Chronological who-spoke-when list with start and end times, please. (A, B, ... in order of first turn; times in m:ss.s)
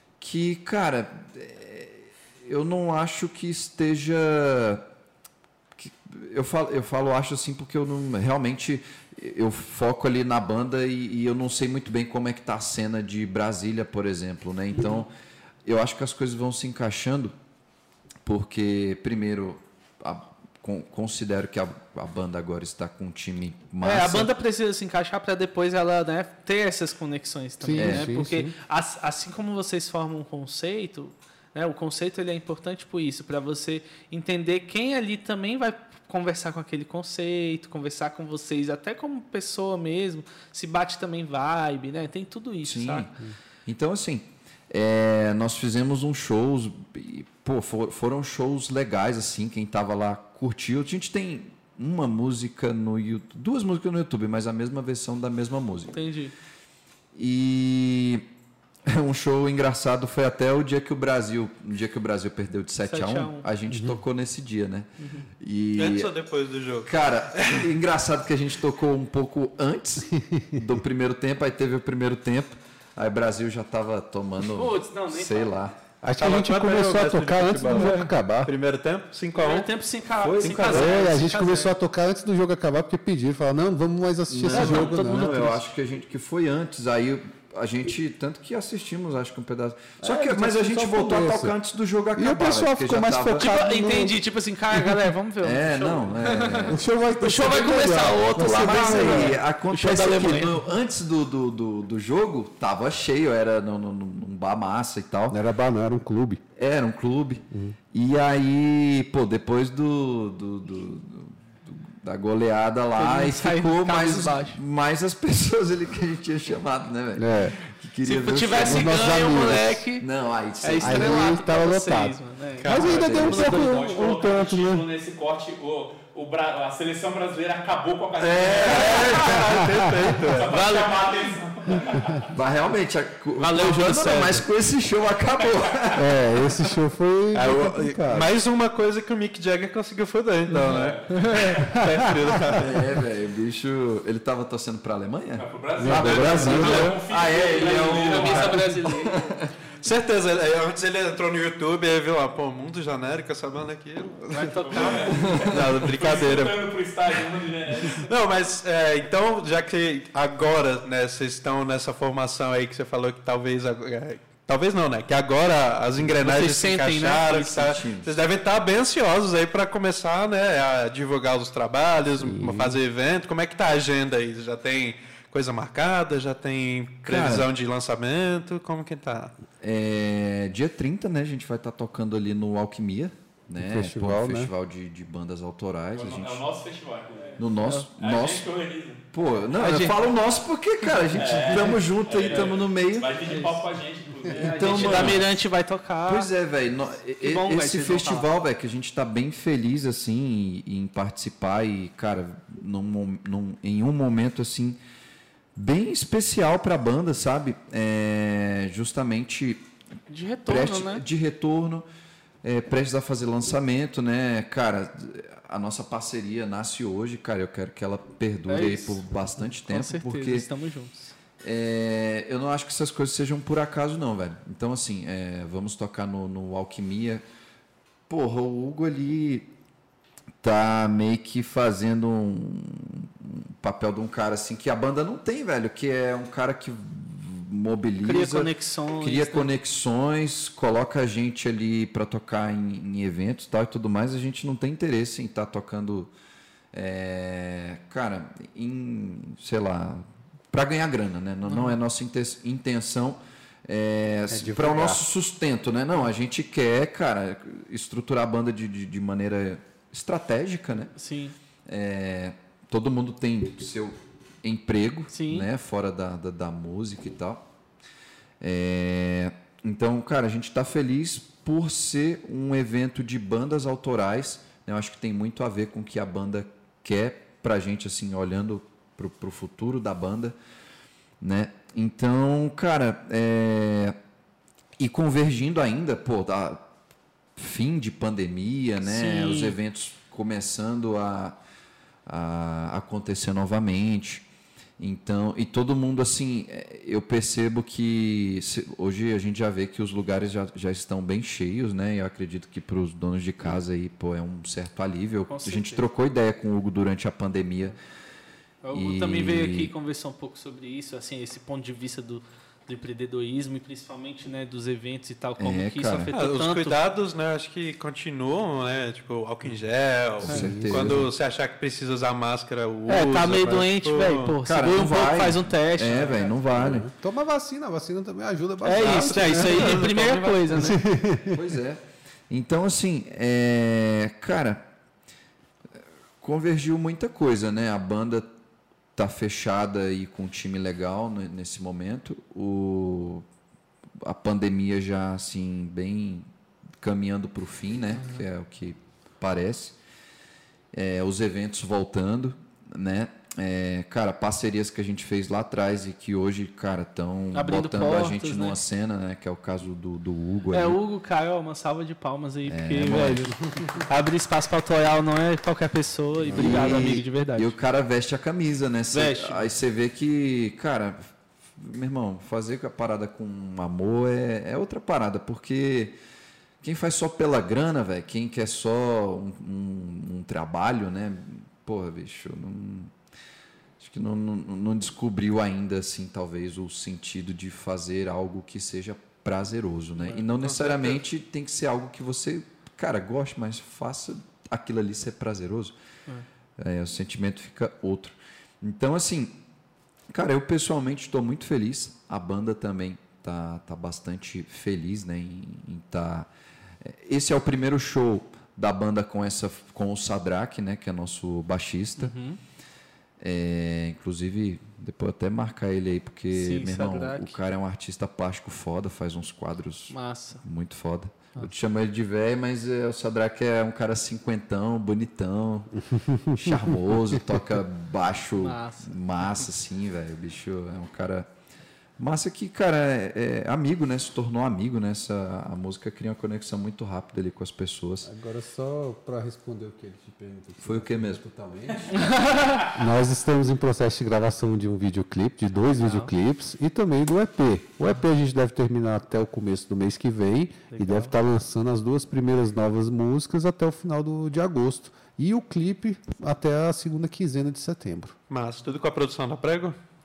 0:00.2-0:04.9 A
0:05.8-0:15.1 A
0:14.7-0:15.1 B
0:15.7-0:17.3 A
0:18.3-0:24.3 A
0:23.8-0:43.1 B
0:27.6-0:28.5 C
0:27.8-0:28.1 A
0:42.6-0:56.0 A
0:55.9-0:56.3 B
0:57.2-0:58.3 A
0:58.9-1:06.1 A
1:02.8-1:03.5 B
1:03.7-1:04.0 C
1:05.0-1:05.3 B
1:05.8-1:07.7 D
1:06.8-1:15.8 A
1:10.0-1:10.8 C
1:14.4-1:15.6 B
1:16.0-1:18.5 C
1:16.2-1:19.7 D
1:19.4-1:21.7 B
1:20.2-1:21.1 A
1:20.4-1:21.0 D
1:20.7-1:25.6 C
1:24.3-1:33.5 A
1:24.5-1:25.5 B
1:30.0-1:31.6 C
1:32.2-1:34.2 C
1:33.4-1:40.6 B
1:35.4-1:36.8 A
1:36.7-1:39.4 C
1:38.4-1:45.4 A
1:45.3-1:46.4 C
1:46.6-2:01.3 A
1:47.5-1:47.8 C
1:53.0-1:54.6 B
1:57.2-1:57.6 C
1:58.0-2:00.1 B
1:58.6-1:59.8 C
2:00.6-2:03.8 B
2:00.8-2:04.8 C
2:02.6-2:03.4 D
2:03.0-2:09.4 E
2:08.2-2:09.7 A
2:08.4-2:10.7 D
2:09.6-2:10.1 C
2:10.2-2:12.3 E
2:10.5-2:11.1 B
2:12.3-2:16.3 A
2:13.4-2:14.4 B
2:15.4-2:16.0 E
2:16.0-2:18.4 C
2:17.3-2:22.8 D
2:20.6-2:21.8 E
2:21.4-2:22.6 C
2:22.5-2:29.5 A
2:25.4-2:28.6 E
2:25.8-2:27.0 C
2:27.4-2:29.3 B
2:29.8-2:37.2 D
2:34.3-2:35.4 B
2:34.5-2:38.1 E
2:35.1-2:35.5 A
2:37.8-2:59.3 D
2:46.2-2:47.7 B
2:47.3-2:48.2 A
2:52.2-2:52.8 C
2:57.0-2:57.5 A
2:59.6-3:06.4 A
3:03.6-3:04.5 C
3:05.9-3:09.0 E
3:07.4-3:08.5 A
3:09.1-3:13.1 A
3:09.6-3:09.9 B
3:09.6-3:10.0 D
3:11.1-3:15.2 E
3:13.3-3:13.6 B
3:14.3-3:14.6 C
3:14.3-3:16.3 B
3:14.4-3:15.3 A
3:16.0-3:24.8 A
3:17.2-3:18.3 B
3:25.6-3:29.7 A
3:30.1-3:31.0 B
3:30.5-3:31.8 A
3:32.4-3:40.5 A
3:38.5-3:41.1 B
3:41.4-3:47.2 A
3:48.1-3:49.5 A
3:50.4-4:06.1 A
3:58.0-3:59.5 B
4:06.7-4:21.0 A
4:11.5-4:11.8 B
4:14.3-4:15.1 C
4:21.0-4:21.4 B
4:21.7-4:27.4 A
4:25.1-4:25.5 B
4:28.4-4:40.4 A
4:41.2-4:44.0 A
4:44.8-4:46.7 A
4:47.4-4:51.4 A
4:48.8-4:49.6 B
4:52.1-4:54.2 A
4:54.8-5:07.8 A
5:05.3-5:05.8 B
5:08.6-5:16.8 B
5:08.7-5:09.7 A
5:15.4-5:16.1 A
5:16.1-5:24.4 D
5:20.2-5:21.1 A
5:20.3-5:21.1 C
5:22.9-5:26.7 B
5:24.4-5:26.9 A
5:26.6-5:29.8 C
5:28.6-5:30.8 B
5:28.8-5:30.6 D
5:30.5-5:31.4 C
5:31.3-5:34.7 A
5:36.2-5:38.3 A
5:39.0-5:43.3 A
5:44.0-5:46.3 A
5:46.8-5:49.8 A
5:50.7-6:00.8 A
5:57.3-5:58.6 B
6:00.5-6:07.5 B
6:02.5-6:03.4 A
6:06.3-6:16.0 A
6:06.3-6:06.8 C
6:08.9-6:09.4 B
6:16.6-6:22.9 A
6:23.8-6:35.8 A
6:30.0-6:30.6 B
6:30.4-6:31.0 D
6:36.6-6:39.4 A
6:40.1-6:46.3 A
6:46.8-6:52.1 A
6:52.0-6:52.4 B
6:53.2-7:11.3 A
6:56.3-6:57.4 B
6:59.9-7:00.4 B
7:05.9-7:07.4 C
7:08.4-7:09.0 B
7:12.0-7:18.1 A
7:18.0-7:21.9 C
7:20.6-7:21.2 A
7:21.9-7:22.7 E
7:21.9-7:22.6 B
7:22.7-7:38.2 C
7:25.8-7:26.1 B
7:30.7-7:31.1 B
7:38.3-7:39.8 D